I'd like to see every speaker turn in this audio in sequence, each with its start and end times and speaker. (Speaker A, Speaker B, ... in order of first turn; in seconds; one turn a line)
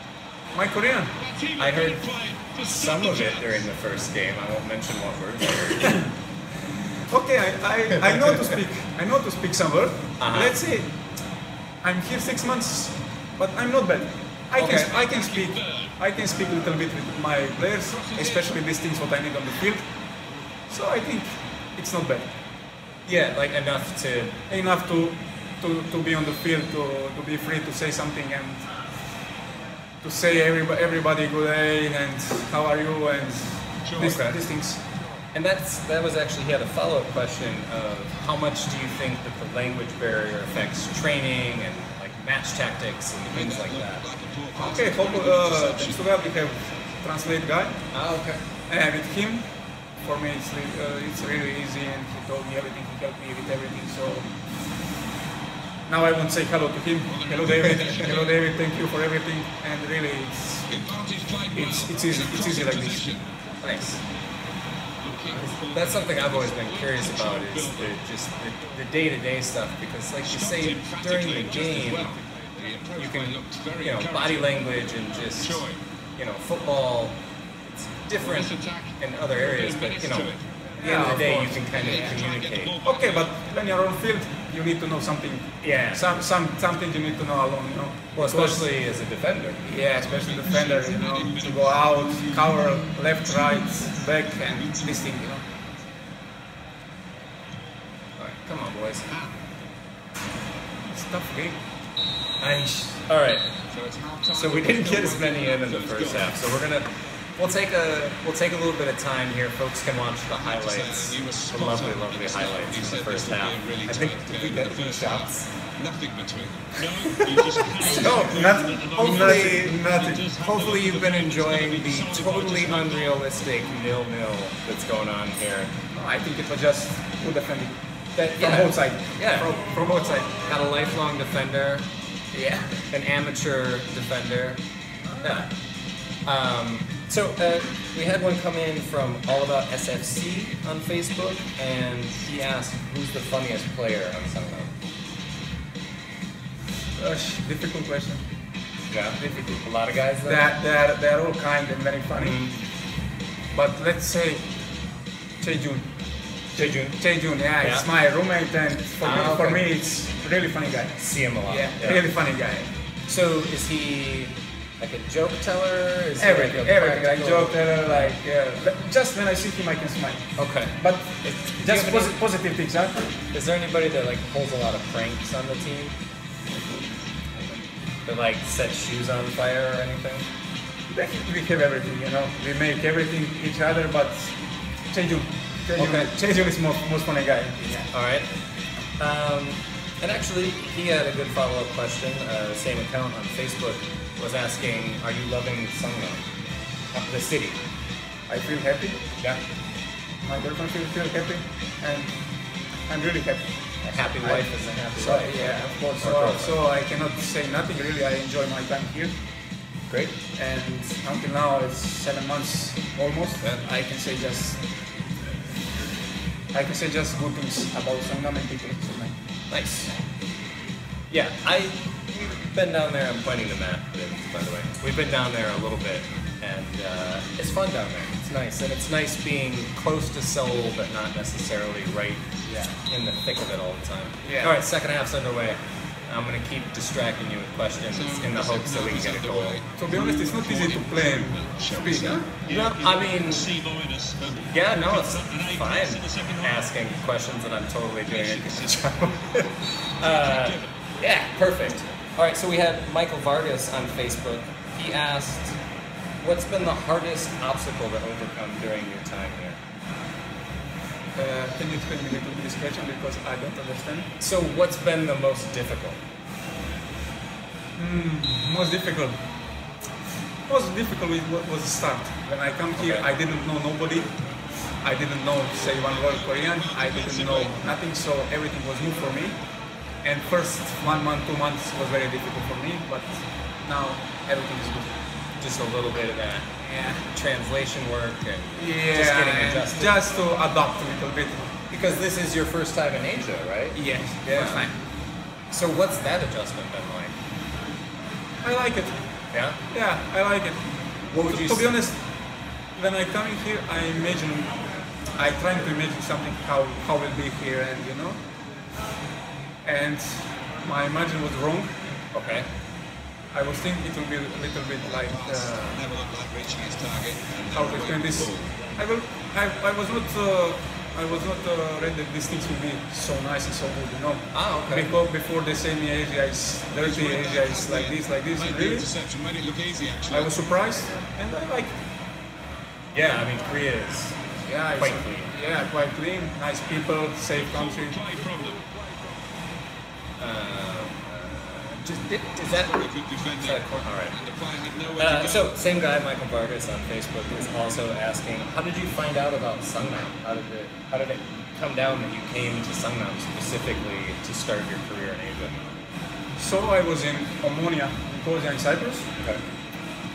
Speaker A: 0.5-1.1
Speaker B: 1.2-3.6
Speaker C: 1.6-2.0
Speaker C: 2.6-6.0
Speaker A: 7.1-10.9
Speaker C: 8.0-8.5
Speaker C: 10.2-10.6
Speaker A: 11.8-19.8
Speaker C: 14.6-14.9
Speaker B: 14.6-15.9
Speaker B: 17.8-18.5
Speaker A: 20.7-22.3
Speaker C: 23.1-24.4
Speaker A: 24.5-28.6
Speaker A: 30.0-34.8
Speaker B: 33.8-34.2
Speaker C: 34.0-34.4
Speaker C: 35.3-44.0
Speaker B: 43.3-46.1
Speaker A: 44.5-47.8
Speaker C: 47.9-48.4
Speaker A: 48.7-49.5
Speaker A: 50.0-54.3
Speaker A: 55.9-60.8
Speaker B: 57.1-58.4
Speaker B: 60.7-63.2
Speaker A: 61.5-63.1
Speaker C: 63.6-64.0
Speaker B: 65.0-68.0
Speaker C: 65.4-72.2
Speaker B: 70.2-74.6
Speaker C: 73.0-75.6
Speaker B: 75.4-75.8
Speaker C: 76.2-82.7
Speaker B: 78.2-80.5
Speaker A: 80.8-82.1
Speaker B: 81.0-83.3
Speaker A: 82.8-88.7
Speaker C: 85.6-86.1
Speaker C: 88.1-89.6
Speaker A: 89.6-95.4
Speaker B: 89.9-92.8
Speaker B: 93.4-93.9
Speaker B: 94.4-95.0
Speaker C: 98.2-99.1
Speaker A: 100.9-101.6
Speaker C: 102.4-103.5
Speaker B: 103.7-106.4
Speaker C: 104.3-113.6
Speaker B: 110.3-123.2
Speaker A: 113.9-115.2
Speaker C: 115.0-115.5
Speaker C: 117.8-125.7
Speaker A: 117.8-120.2
Speaker A: 125.9-130.3
Speaker C: 128.4-131.9
Speaker A: 132.3-132.8
Speaker C: 132.9-134.6
Speaker C: 135.2-135.5
Speaker C: 136.2-144.7
Speaker A: 146.9-148.2
Speaker C: 148.9-150.5
Speaker A: 149.2-149.6
Speaker A: 150.2-152.4
Speaker C: 152.2-152.6
Speaker A: 153.5-154.5
Speaker A: 155.4-155.9
Speaker C: 156.5-157.0
Speaker A: 156.6-162.7
Speaker C: 157.6-157.8
Speaker C: 159.0-159.6
Speaker C: 161.0-162.0
Speaker C: 163.1-168.1
Speaker A: 166.2-173.1
Speaker C: 170.3-172.2
Speaker C: 173.3-175.9
Speaker C: 178.0-180.2
Speaker A: 180.9-184.3
Speaker A: 184.9-187.9
Speaker C: 185.8-186.1
Speaker C: 187.9-188.3
Speaker C: 189.0-196.2
Speaker C: 196.9-197.6
Speaker A: 198.3-199.0
Speaker A: 200.2-202.1
Speaker A: 202.9-203.5
Speaker C: 203.8-206.6
Speaker A: 204.1-209.2
Speaker C: 209.9-210.1
Speaker A: 210.3-214.6
Speaker A: 216.5-219.2
Speaker C: 219.5-219.9
Speaker C: 221.1-232.2
Speaker C: 232.8-239.6
Speaker A: 234.2-234.5
Speaker B: 237.9-244.4
Speaker A: 239.8-242.2
Speaker C: 242.4-243.5
Speaker C: 244.4-255.6
Speaker B: 245.0-246.4
Speaker B: 248.1-249.4
Speaker B: 250.0-250.7
Speaker C: 256.2-259.6
Speaker A: 261.1-264.1
Speaker C: 264.2-266.0
Speaker A: 267.8-269.2
Speaker A: 270.5-274.2
Speaker C: 272.8-273.1
Speaker A: 274.8-279.4
Speaker B: 275.6-277.6
Speaker A: 280.0-285.0
Speaker C: 285.4-286.5
Speaker A: 286.6-287.1
Speaker C: 287.0-289.9
Speaker A: 288.6-291.5
Speaker C: 291.7-294.7
Speaker A: 293.7-294.7
Speaker C: 295.5-297.1
Speaker A: 298.4-299.0
Speaker C: 299.3-299.6
Speaker A: 299.7-302.0
Speaker C: 301.1-301.7
Speaker A: 302.8-308.2
Speaker A: 309.6-312.0
Speaker C: 312.1-312.5
Speaker A: 313.3-315.6
Speaker B: 314.8-318.5
Speaker A: 317.5-328.9
Speaker C: 324.3-324.9
Speaker B: 326.8-330.4
Speaker A: 330.1-331.7
Speaker C: 332.9-334.2
Speaker A: 334.4-338.0
Speaker C: 334.7-335.3
Speaker B: 337.3-338.6
Speaker C: 340.2-342.8
Speaker B: 342.4-345.5
Speaker C: 343.4-344.1
Speaker C: 345.0-355.8
Speaker A: 356.4-359.1